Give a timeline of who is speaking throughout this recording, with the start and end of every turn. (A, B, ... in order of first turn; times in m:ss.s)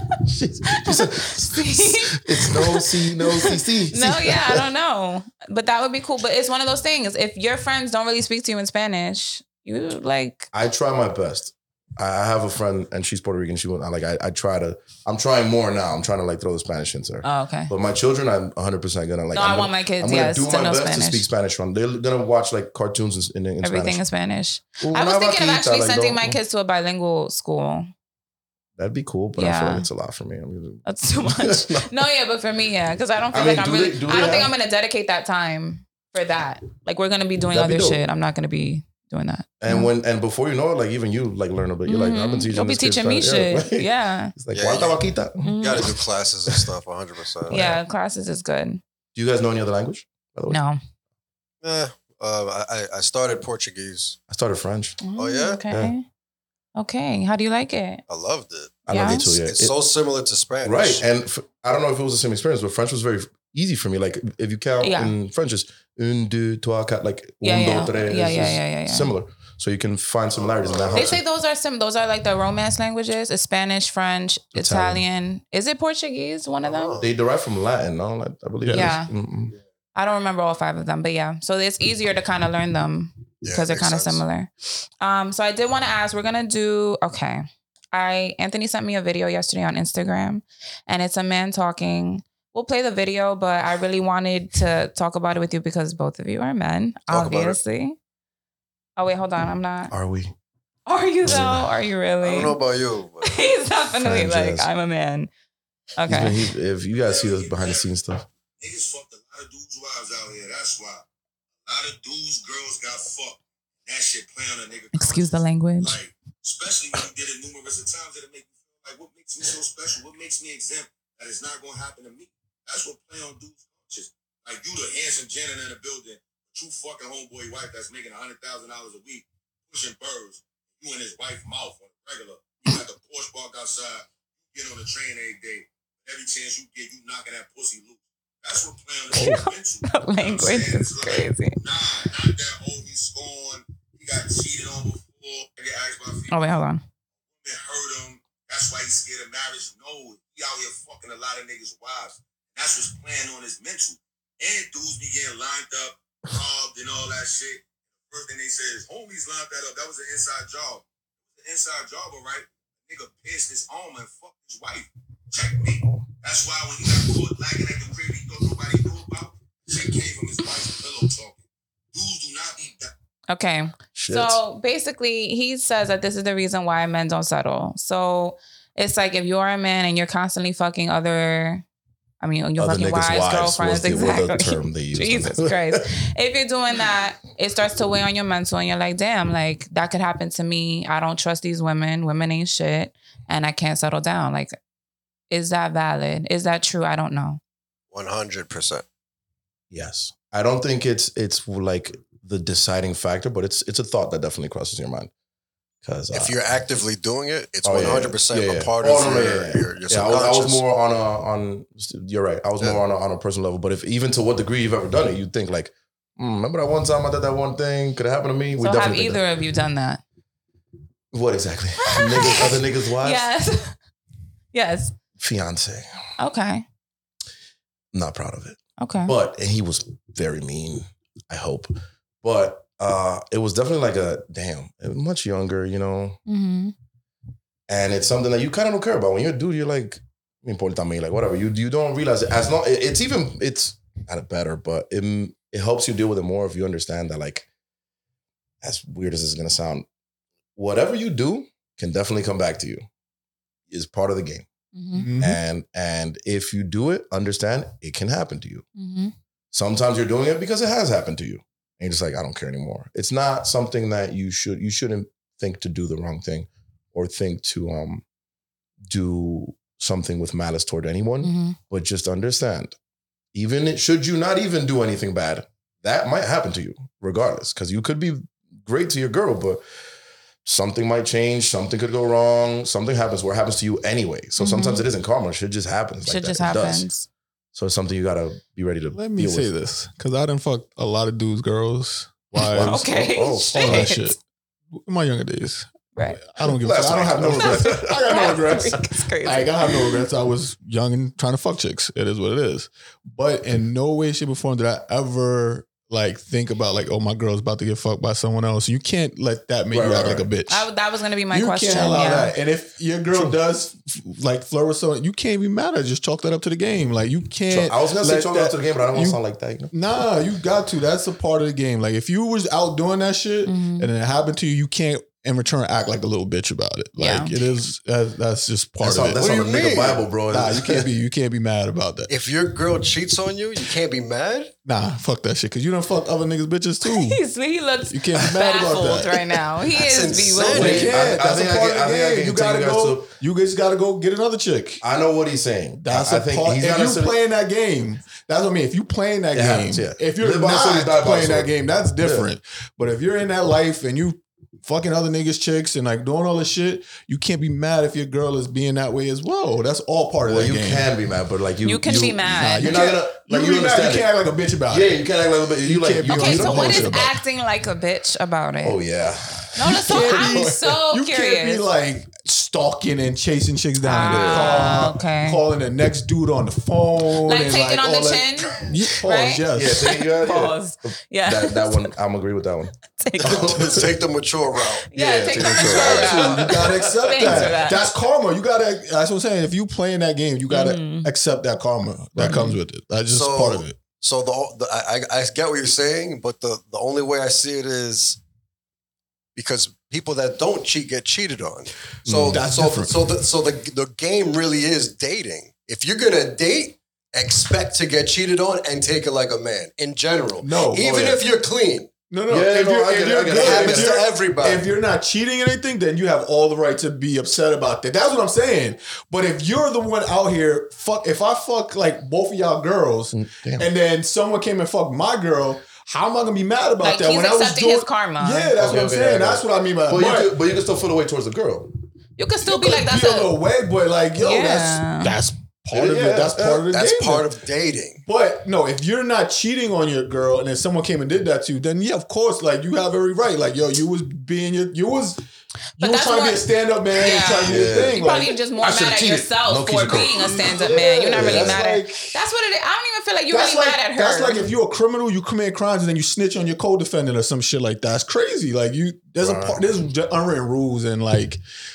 0:00.2-0:04.6 A
0:00.8-0:10.5 B
0:10.5-0:24.0 A
0:17.2-0:17.7 B
0:19.3-0:21.3 B
0:23.6-0:27.9 B
0:24.8-0:26.4 A
0:28.8-0:31.9 A
0:29.4-0:29.9 B
0:30.8-0:39.9 B
0:33.3-0:34.5 A
0:37.5-0:38.0 A
0:39.6-0:46.6 A
0:41.9-0:44.3 B
0:44.5-0:45.0 C
0:45.4-0:45.9 B
0:45.6-0:47.6 C
0:47.5-0:47.8 A
0:47.5-0:48.8 B
0:49.1-0:50.6 A
0:50.5-0:50.8 B
0:51.6-0:54.2 C
0:54.3-0:55.0 A
0:55.0-0:56.0 B
0:55.2-0:55.6 C
0:55.7-0:55.9 A
0:56.8-0:58.0 B
0:58.1-1:01.0 C
0:58.9-0:59.7 A
0:58.9-0:59.4 B
1:00.6-1:11.2 A
1:04.8-1:05.1 B
1:07.4-1:09.1 B
1:10.3-1:11.2 C
1:10.9-1:17.0 B
1:14.5-1:15.0 A
1:16.6-1:17.1 C
1:17.0-1:19.5 A
1:18.6-1:18.9 D
1:18.7-1:19.1 B
1:19.9-1:38.0 B
1:23.4-1:24.2 C
1:37.1-1:37.6 A
1:39.0-1:39.9 B
1:39.9-1:40.3 A
1:40.9-1:42.6 B
1:41.2-1:41.7 A
1:42.2-1:43.4 C
1:43.2-1:45.3 B
1:44.0-1:44.7 A
1:46.0-1:46.4 B
1:46.1-1:48.2 A
1:47.0-1:47.8 E
1:48.6-1:51.0 E
1:51.6-2:26.4 E
1:54.9-1:56.0 B
2:19.1-2:21.6 B
2:26.3-2:26.8 B
2:27.4-2:51.4 E
2:45.8-2:46.1 A
2:51.9-2:52.9 E
2:53.3-3:01.6 B
2:53.9-2:54.4 A
3:02.2-3:14.6 B
3:02.6-3:05.7 A
3:15.3-3:17.4 B
3:17.9-3:18.8 C
3:19.7-3:25.1 A
3:25.8-3:26.4 A
3:26.1-3:30.6 C
3:27.6-3:39.2 A
3:38.6-3:40.0 B
3:41.1-3:43.2 A
3:41.8-3:43.8 B
3:44.5-3:44.9 B
3:45.2-3:45.9 A
3:46.2-3:46.6 B
3:47.9-3:56.2 A
3:48.8-3:49.1 B
3:56.3-3:56.7 B
3:57.7-4:07.5 A
4:08.6-4:09.8 A
4:10.6-4:12.8 A
4:13.7-4:14.4 A
4:14.7-4:15.1 B
4:14.9-4:15.4 D
4:15.2-4:18.6 A
4:18.8-4:19.1 B
4:19.5-4:28.0 A
4:28.8-4:32.7 A
4:31.2-4:31.6 B
4:33.3-4:39.6 A
4:40.4-4:46.9 A
4:44.4-4:44.9 B
4:46.0-4:47.1 B
4:47.5-4:49.5 A
4:48.9-4:52.8 D
4:52.4-4:53.9 A
4:52.6-4:54.2 B
4:53.5-4:54.2 D
4:54.7-4:55.7 D
4:55.9-4:56.2 B
4:56.2-5:10.7 D
4:56.4-4:58.7 A
4:57.4-5:00.0 B
5:09.7-5:10.3 A
5:10.5-5:12.3 B
5:11.3-5:19.2 D
5:13.1-5:13.4 A
5:17.5-5:19.7 A
5:19.7-5:29.2 D
5:23.4-5:23.9 B
5:27.0-5:27.3 B
5:28.8-5:30.9 A
5:29.2-5:30.1 C
5:30.3-5:32.1 D
5:32.1-5:34.5 C
5:34.6-5:37.2 D
5:36.8-5:40.8 B
5:37.9-5:39.4 D
5:39.8-5:41.1 C
5:40.4-5:44.8 D
5:40.5-5:43.1 A
5:44.8-5:47.2 A
5:45.8-6:00.9 D
5:49.3-5:52.3 A
6:00.2-6:04.1 A
6:01.6-6:02.9 B
6:02.3-6:05.0 D
6:04.7-6:07.1 A
6:05.6-6:07.2 D
6:06.0-6:08.8 B
6:08.6-6:10.6 A
6:09.6-6:11.7 B
6:09.7-6:19.8 D
6:13.8-6:15.4 B
6:13.9-6:14.7 A
6:17.2-6:21.9 B
6:19.5-6:23.9 A
6:23.0-6:23.6 B
6:23.2-6:23.6 D
6:23.4-6:24.9 C
6:24.9-6:27.9 B
6:24.9-6:26.5 A
6:25.3-6:33.8 D
6:25.5-6:27.3 C
6:27.3-6:27.6 A
6:30.5-6:31.1 B
6:32.2-6:32.4 A
6:32.2-6:32.6 B
6:33.1-6:38.2 C
6:39.4-6:51.9 C
6:42.0-6:42.4 A
6:42.3-6:43.0 D
6:50.4-6:51.2 D
6:52.1-7:10.3 D
6:52.3-6:54.0 A
6:53.3-6:54.7 C
7:03.1-7:03.7 A
7:06.8-7:08.5 B
7:08.6-7:11.7 A
7:12.2-7:13.3 B
7:12.4-7:17.3 D
7:14.2-7:15.2 B
7:15.7-7:16.7 A
7:16.7-7:18.0 C
7:18.0-7:25.2 D
7:25.8-7:34.5 B
7:25.8-7:28.4 D
7:27.4-7:31.6 A
7:30.3-7:32.2 D
7:33.3-7:41.4 D
7:39.2-7:39.6 A